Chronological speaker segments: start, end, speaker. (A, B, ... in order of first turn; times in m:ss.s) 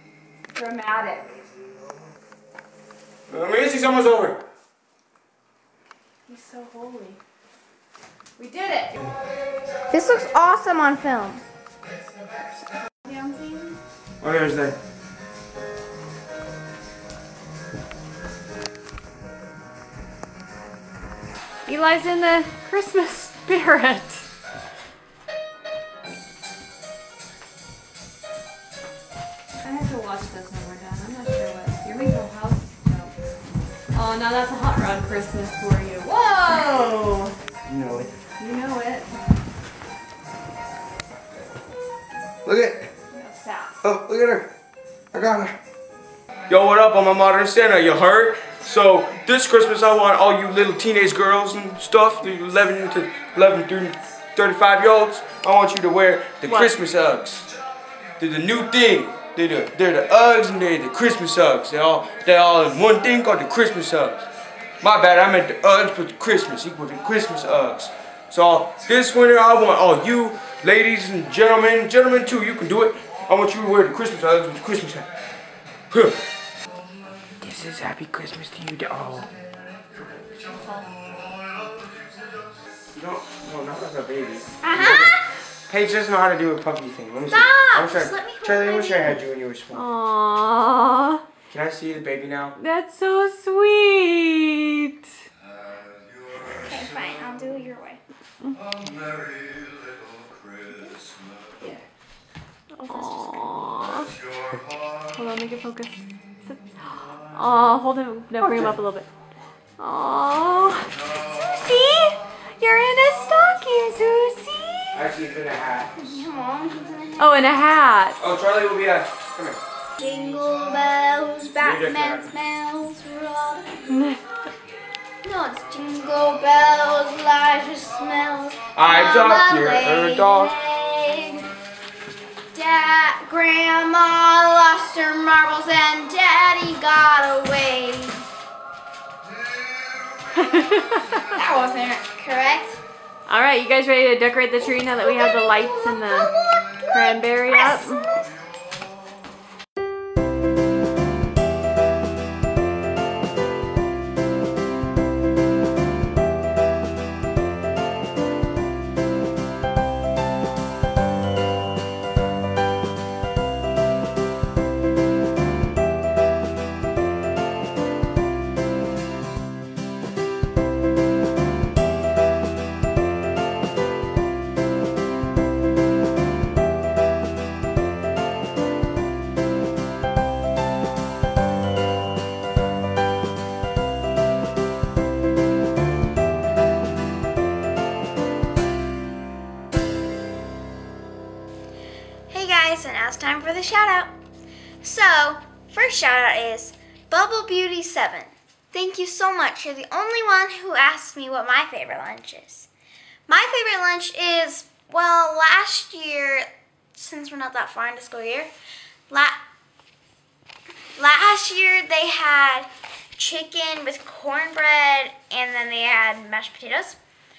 0:00.5-0:01.4 A
0:03.3-0:04.4 B
0:06.3-0:07.2 A
0:08.4-0:09.0 A
0:09.9-0:11.4 C
0:13.0-0:13.8 A
0:14.2-0:14.8 B
0:21.7-0:24.2 A
0:29.6-0:33.1 A
0:33.9-0:37.4 A
0:37.7-0:38.2 B
0:38.4-0:39.2 A
0:42.4-0:42.9 B
0:43.1-0:43.8 A
0:43.8-0:44.5 B
0:45.1-0:45.6 B
0:46.5-0:57.5 B
0:56.4-0:56.8 A
0:58.2-1:04.3 B
1:04.8-1:15.1 B
1:15.9-1:16.2 B
1:17.4-1:19.3 B
1:22.9-1:29.9 B
1:24.6-1:25.3 C
1:27.2-1:29.2 C
1:29.7-1:31.2 A
1:31.5-1:32.6 B
1:32.6-1:35.1 A
1:36.4-1:38.0 C
1:42.7-1:44.2 A
1:42.9-1:43.6 C
1:45.2-1:49.1 A
1:49.8-1:55.0 A
1:54.9-1:56.0 B
1:56.0-1:57.3 C
1:57.2-1:58.2 A
1:58.2-1:59.6 B
2:00.0-2:04.0 C
2:01.6-2:02.3 B
2:03.9-2:04.2 A
2:05.2-2:11.5 C
2:08.8-2:10.5 B
2:12.5-2:18.2 C
2:20.3-2:21.3 A
2:21.3-2:22.8 C
2:23.3-2:28.1 A
2:24.7-2:28.2 C
3:12.3-3:14.1 C
3:14.8-3:22.7 C
3:23.3-3:28.5 C
3:29.1-3:29.4 C
3:31.0-3:37.0 C